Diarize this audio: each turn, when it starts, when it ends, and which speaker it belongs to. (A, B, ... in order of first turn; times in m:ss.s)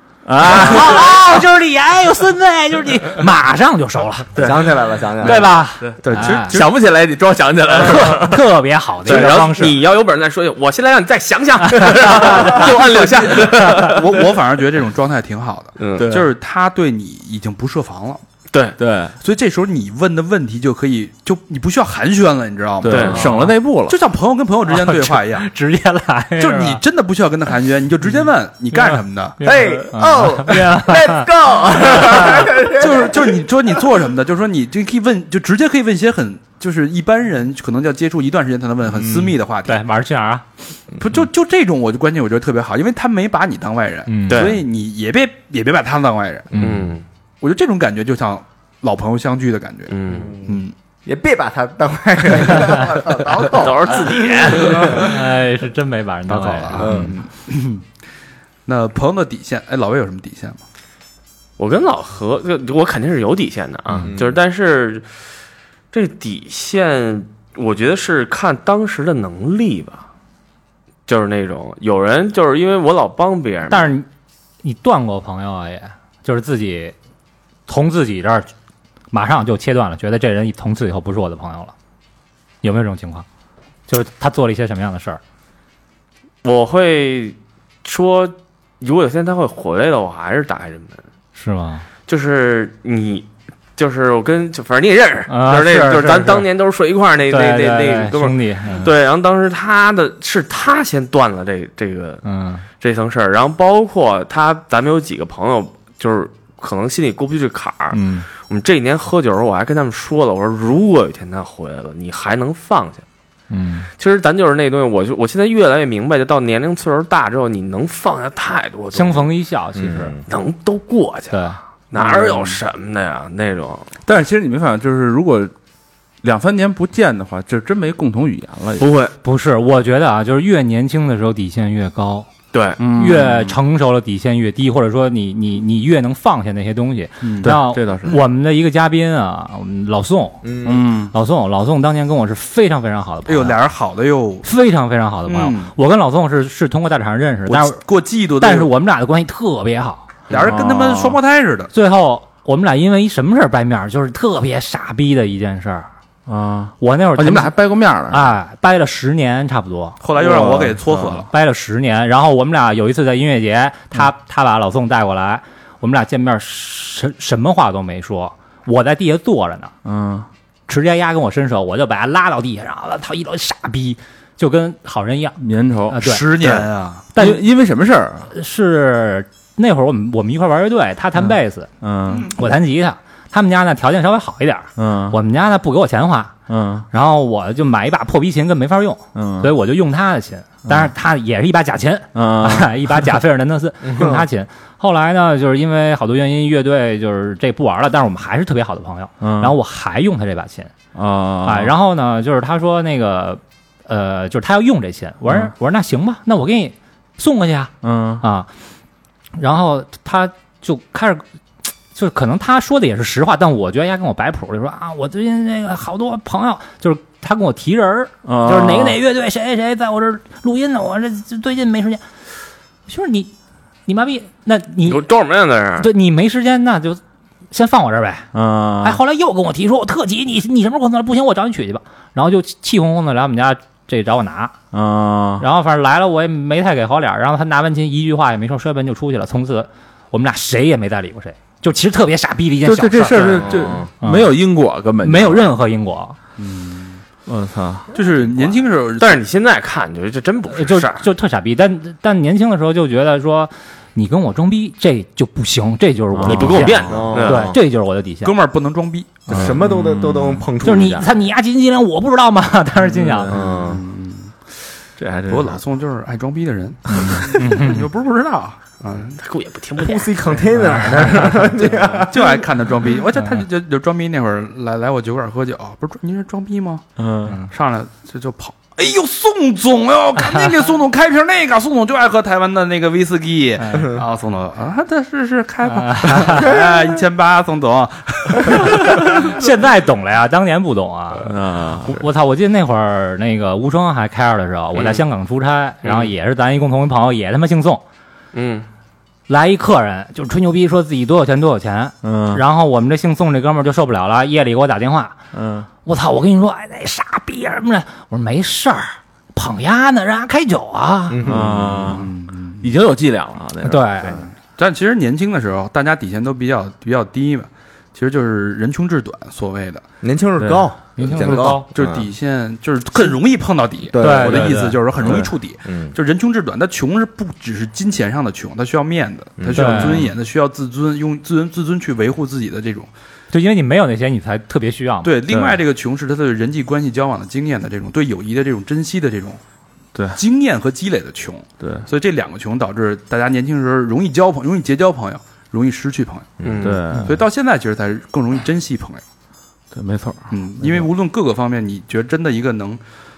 0:00.3-0:01.2 A
0:00.4-0:04.4 B
0:04.4-0:05.5 C
0:05.2-0:06.6 B
0:05.2-0:08.5 A
0:06.0-0:06.8 D
0:07.7-0:09.8 B
0:09.0-0:14.2 E
0:09.1-0:09.5 A
0:11.6-0:12.7 B
0:12.4-0:18.2 D
0:12.5-0:13.4 A
0:13.6-0:13.9 B
0:15.8-0:16.1 E
0:16.0-0:16.3 A
0:18.5-0:18.8 E
0:18.8-0:19.2 A
0:19.2-0:25.5 D
0:22.8-0:24.0 A
0:22.8-0:23.3 E
0:23.2-0:23.4 B
0:24.7-0:26.8 B
0:26.4-0:29.4 D
0:28.7-0:32.5 B
0:29.4-0:33.4 C
0:32.2-0:39.8 D
0:38.9-0:40.4 B
0:41.0-0:46.5 D
0:44.1-0:44.5 B
0:44.3-0:44.6 E
0:46.5-0:47.0 E
0:47.4-0:50.7 D
0:49.9-0:50.4 E
0:50.1-0:55.1 C
0:53.4-0:55.0 E
0:54.8-0:56.9 B
0:56.3-0:57.8 D
0:56.7-0:57.2 C
0:58.7-1:00.6 D
1:01.6-1:05.1 E
1:04.0-1:04.4 C
1:05.9-1:10.1 E
1:11.1-1:13.9 E
1:13.7-1:14.1 B
1:14.6-1:17.0 B
1:17.7-1:18.5 B
1:19.1-1:21.7 B
1:22.6-1:23.3 B
1:23.9-1:25.2 B
1:26.4-1:31.0 E
1:31.4-1:31.9 B
1:32.1-1:42.2 E
1:35.3-1:36.5 B
1:37.3-1:38.9 B
1:42.2-1:42.6 B
1:42.8-1:53.0 E
1:47.9-1:48.3 B
1:53.5-1:53.9 B
1:54.0-1:59.3 E
1:58.9-2:00.2 B
1:59.8-2:00.2 C
2:00.3-2:03.9 E
2:01.3-2:01.6 B
2:04.1-2:05.5 A
2:06.2-2:08.8 A
2:08.8-2:09.2 E
2:09.2-2:12.3 B
2:12.5-2:12.8 E
2:12.8-2:13.6 A
2:12.9-2:20.4 B
2:17.2-2:17.6 D
2:17.4-2:18.2 A
2:20.4-2:20.9 C
2:20.6-2:21.1 A
2:21.1-2:23.6 B
2:23.3-2:24.5 D
2:24.4-2:27.8 B
2:25.3-2:25.7 D
2:27.5-2:28.7 D
2:28.4-2:30.1 B
2:30.3-2:31.7 D
2:30.3-2:31.2 A
2:31.7-2:35.9 B
2:36.3-2:38.3 A
2:36.8-2:37.5 B
2:38.1-2:40.0 B
2:40.0-2:41.3 D
2:40.2-2:41.2 A
2:41.3-2:49.7 B
2:49.8-2:50.3 A
2:50.7-2:55.4 B
2:55.4-2:58.3 A
2:55.9-2:56.2 B
2:56.0-2:57.1 D
2:57.2-2:57.4 B
2:58.3-3:06.4 B
3:01.2-3:02.3 A
3:04.8-3:05.2 A
3:06.5-3:06.9 A
3:06.9-3:20.7 B
3:09.1-3:09.5 A
3:12.1-3:13.1 A
3:13.9-3:14.2 C
3:19.2-3:19.6 A
3:20.9-3:21.7 A
3:21.4-3:28.5 B
3:25.3-3:25.5 A
3:27.8-3:28.2 A
3:29.4-3:31.2 B
3:31.9-3:42.0 B
3:38.2-3:39.0 A
3:42.9-3:43.3 B
3:43.9-3:45.1 B
3:44.9-3:45.9 E
3:45.8-3:47.0 B
3:47.5-3:48.3 B
3:48.3-3:49.0 A
3:48.8-3:54.6 B
3:54.7-3:55.4 A
3:55.4-4:04.4 B
4:02.6-4:05.5 A
4:03.3-4:03.9 C
4:05.0-4:06.2 B
4:06.4-4:07.0 D
4:07.3-4:07.9 A
4:07.9-4:09.2 D
4:09.0-4:11.0 E
4:10.5-4:18.3 B
4:16.1-4:17.1 A
4:16.3-4:17.5 E
4:16.8-4:17.6 C
4:18.2-4:19.5 D
4:19.3-4:20.5 A
4:19.3-4:21.1 C
4:20.6-4:23.4 B
4:22.8-4:23.6 A
4:23.3-4:23.8 C
4:23.6-4:24.4 D
4:25.0-4:25.6 A
4:25.3-4:29.2 D
4:26.9-4:27.8 B
4:27.0-4:27.4 A
4:29.2-4:30.4 E
4:29.8-4:32.5 C
4:30.5-4:31.5 B
4:31.9-4:36.9 D
4:37.0-4:37.4 A
4:37.3-4:37.5 B
4:37.4-4:49.4 D
4:43.6-4:43.9 B
4:45.7-4:46.5 B
4:48.9-4:57.8 B
4:51.2-4:52.0 A
4:54.8-4:55.0 E
4:55.8-4:56.1 E
4:58.3-4:58.7 E
4:59.3-5:05.2 B
5:02.0-5:02.4 A
5:05.3-5:05.7 A
5:05.8-5:11.2 B
5:11.1-5:12.0 C
5:11.2-5:14.3 A
5:11.9-5:12.7 D
5:13.6-5:14.2 B
5:14.1-5:19.9 D
5:20.0-5:22.1 C
5:20.4-5:20.7 A
5:21.0-5:21.7 B
5:21.2-5:32.9 D
5:23.9-5:26.0 C
5:24.0-5:24.8 B
5:29.4-5:29.9 C
5:29.5-5:30.1 B
5:33.3-5:35.2 B
5:35.0-5:39.4 D
5:35.3-5:35.6 A
5:39.9-5:40.2 A
5:40.1-5:46.4 D
5:41.6-5:41.9 A
5:46.4-5:46.7 C
5:46.4-5:46.8 E
5:46.6-5:47.2 A
5:47.0-5:49.0 D
5:49.7-5:50.9 A
5:50.3-5:52.8 D